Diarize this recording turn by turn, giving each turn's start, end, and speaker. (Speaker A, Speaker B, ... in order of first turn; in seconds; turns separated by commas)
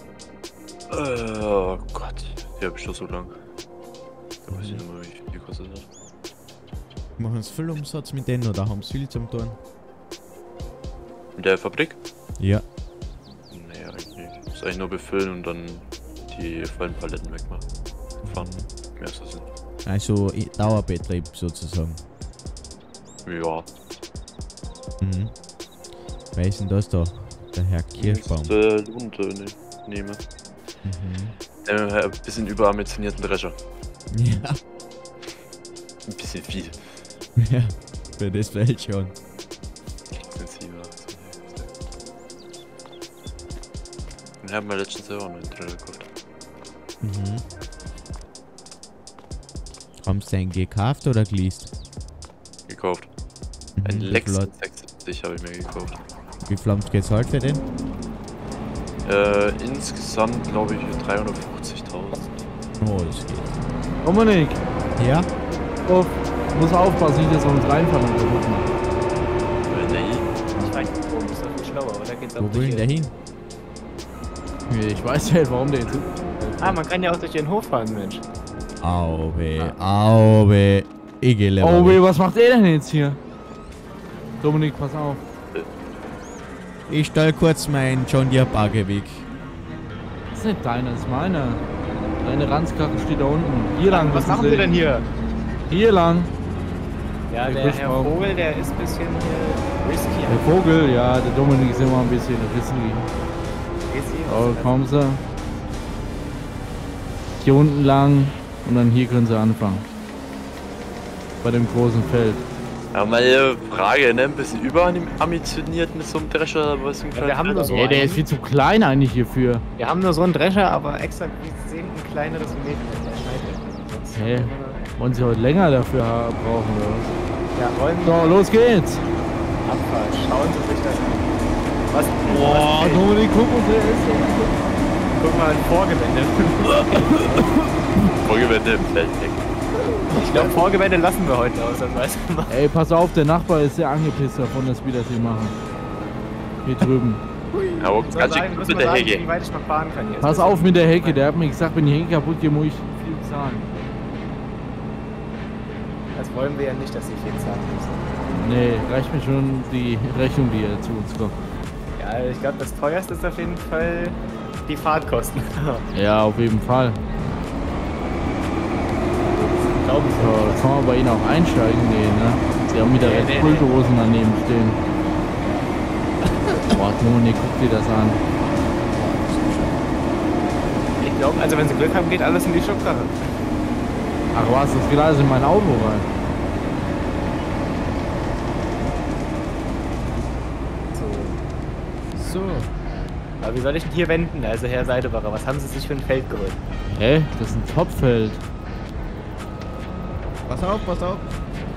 Speaker A: 0.9-3.4, Speaker A: 4.5-5.9, Speaker B: 4.5-4.8, Speaker B: 7.2-9.6, Speaker A: 11.4-12.0, Speaker B: 12.4-12.6, Speaker A: 13.5-17.6, Speaker A: 18.2-19.5, Speaker B: 18.2-18.7, Speaker B: 19.9-22.0, Speaker A: 23.2-23.7, Speaker B: 25.0-25.3, Speaker B: 26.3-28.5, Speaker A: 28.0-30.2, Speaker B: 30.8-31.4, Speaker A: 31.6-33.5, Speaker B: 34.1-34.6, Speaker A: 36.1-36.8, Speaker B: 37.4-39.1, Speaker A: 40.1-41.7, Speaker A: 44.4-46.1, Speaker B: 47.0-47.4, Speaker B: 50.0-51.7, Speaker A: 52.7-53.1, Speaker B: 53.8-54.5, Speaker A: 53.8-56.0, Speaker B: 56.5-57.6, Speaker A: 59.0-62.4, Speaker B: 62.8-63.6, Speaker C: 64.0-64.6, Speaker B: 65.0-65.3, Speaker C: 65.8-68.7, Speaker A: 69.7-70.2, Speaker D: 70.5-72.9, Speaker B: 72.4-73.1, Speaker C: 74.7-76.8, Speaker D: 76.6-78.2, Speaker B: 78.8-82.0, Speaker C: 81.6-83.2, Speaker C: 84.4-85.2, Speaker B: 86.9-89.3, Speaker C: 90.3-91.6, Speaker C: 92.2-94.8, Speaker D: 93.9-95.1, Speaker C: 95.7-96.3, Speaker D: 97.3-100.5, Speaker C: 97.5-98.2, Speaker C: 100.3-103.1, Speaker D: 103.9-104.8, Speaker C: 104.3-105.2, Speaker C: 107.4-109.9, Speaker C: 111.4-112.4, Speaker A: 112.9-117.8, Speaker D: 117.1-118.2, Speaker C: 117.7-119.6, Speaker D: 119.8-124.8, Speaker C: 124.1-127.2, Speaker D: 127.6-128.2, Speaker C: 128.0-129.1, Speaker D: 129.7-131.3, Speaker D: 131.9-133.1, Speaker C: 132.3-134.6, Speaker D: 135.2-137.7, Speaker C: 137.1-137.7, Speaker A: 138.2-139.4, Speaker D: 140.1-142.5, Speaker C: 142.5-145.6, Speaker C: 146.7-147.2, Speaker D: 147.5-151.2, Speaker A: 147.8-149.3, Speaker C: 150.2-153.7, Speaker D: 156.2-158.0, Speaker C: 158.3-161.3, Speaker D: 162.0-165.9, Speaker C: 165.9-167.0, Speaker D: 169.2-170.7, Speaker C: 170.2-174.8, Speaker D: 172.9-173.7, Speaker C: 176.7-178.2, Speaker B: 178.9-179.7, Speaker D: 181.0-183.1, Speaker C: 184.3-186.1, Speaker D: 190.9-191.4, Speaker C: 192.2-192.7, Speaker D: 193.4-196.6, Speaker C: 196.9-198.4, Speaker B: 200.5-201.3